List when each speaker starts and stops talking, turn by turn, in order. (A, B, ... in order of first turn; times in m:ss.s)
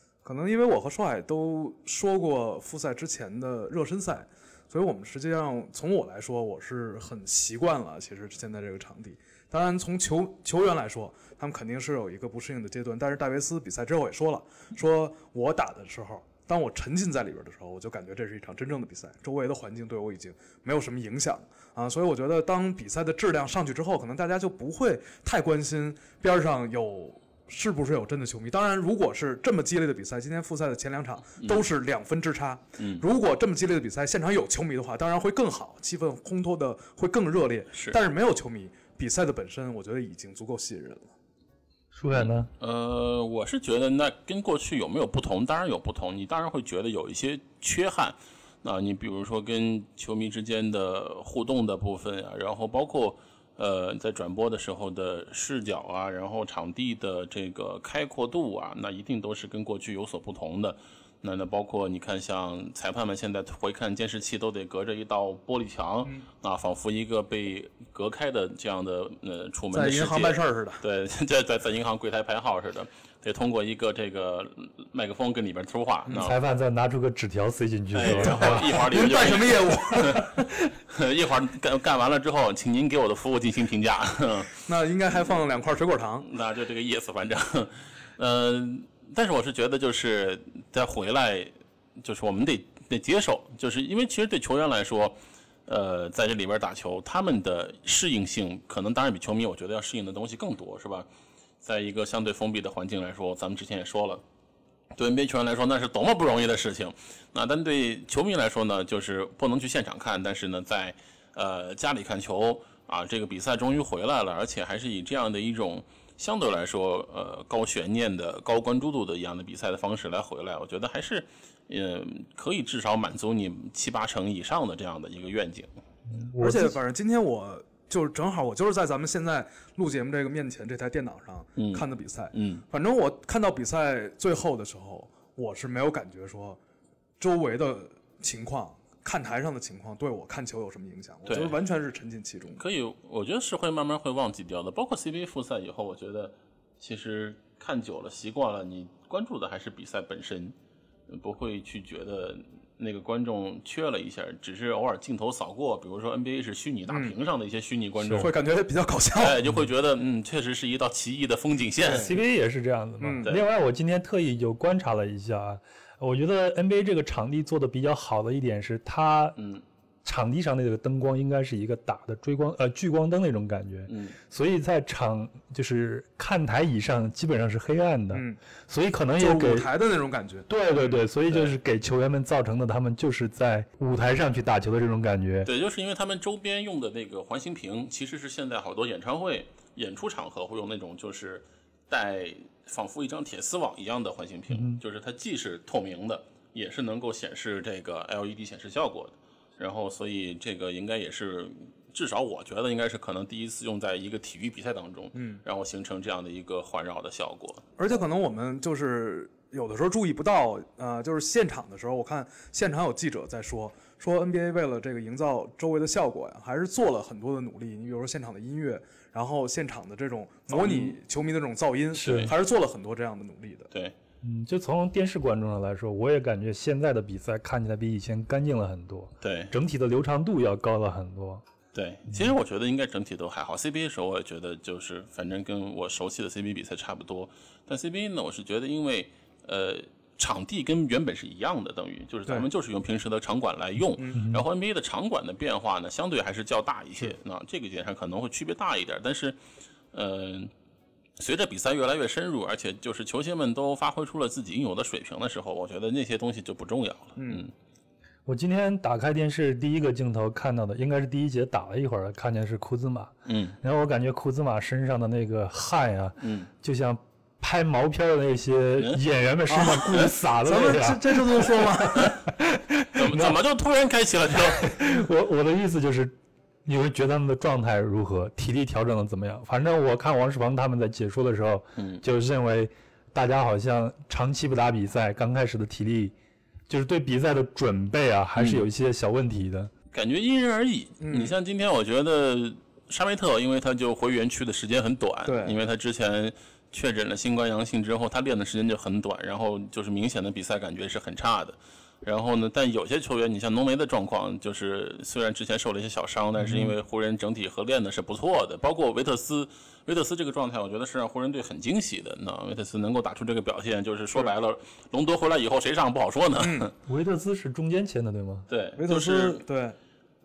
0:00.2-0:41.1 A
0:32.8-0:33.0 B
0:42.0-0:42.5 C
0:42.1-1:16.4 B
1:09.7-1:10.8 A
1:16.2-1:19.1 C
1:17.9-1:20.4 B
1:18.1-1:20.5 A
1:20.9-1:24.6 B
1:24.6-1:26.3 A
1:26.2-1:41.1 B
1:41.6-1:44.2 B
1:45.0-2:05.7 B
2:06.1-2:06.8 C
2:06.4-2:16.6 A
2:11.6-2:12.6 B
2:17.2-2:22.6 A
2:21.3-2:21.6 B
2:22.6-2:30.6 B
2:31.1-2:38.4 B
2:38.0-2:38.3 C
2:38.2-2:39.4 A
2:39.2-2:42.1 B
2:42.0-2:49.4 C
2:43.0-2:43.3 A
2:49.4-2:49.6 B
2:50.0-2:59.7 C
2:53.9-2:54.2 B
2:58.1-2:58.4 A
2:59.2-3:00.5 A
3:00.5-3:05.5 C
3:01.3-3:01.5 B
3:05.4-3:27.6 B
3:14.5-3:14.8 C
3:25.1-3:25.4 A
3:27.8-3:43.7 A
3:40.5-3:41.0 B
3:42.0-3:42.3 C
3:42.0-3:42.3 B
3:44.2-3:51.4 C
3:49.2-3:49.5 B
3:51.7-4:09.4 B
4:04.2-4:04.4 C
4:09.9-4:10.5 B
4:11.2-4:17.5 B
4:17.2-4:17.4 A
4:18.3-4:33.4 C
4:23.3-4:23.6 B
4:26.2-4:26.5 B
4:28.8-4:29.0 B
4:29.5-4:32.2 A
4:33.0-4:34.8 B
4:34.5-4:46.2 C
4:41.8-4:42.0 B
4:46.7-4:49.7 C
4:48.4-4:48.7 B
4:49.9-5:16.7 B
4:51.0-4:51.3 A
4:55.3-4:55.6 A
5:06.4-5:06.7 C
5:16.4-5:16.7 A
5:16.9-5:18.5 C
5:18.5-5:19.4 B
5:18.8-5:19.8 A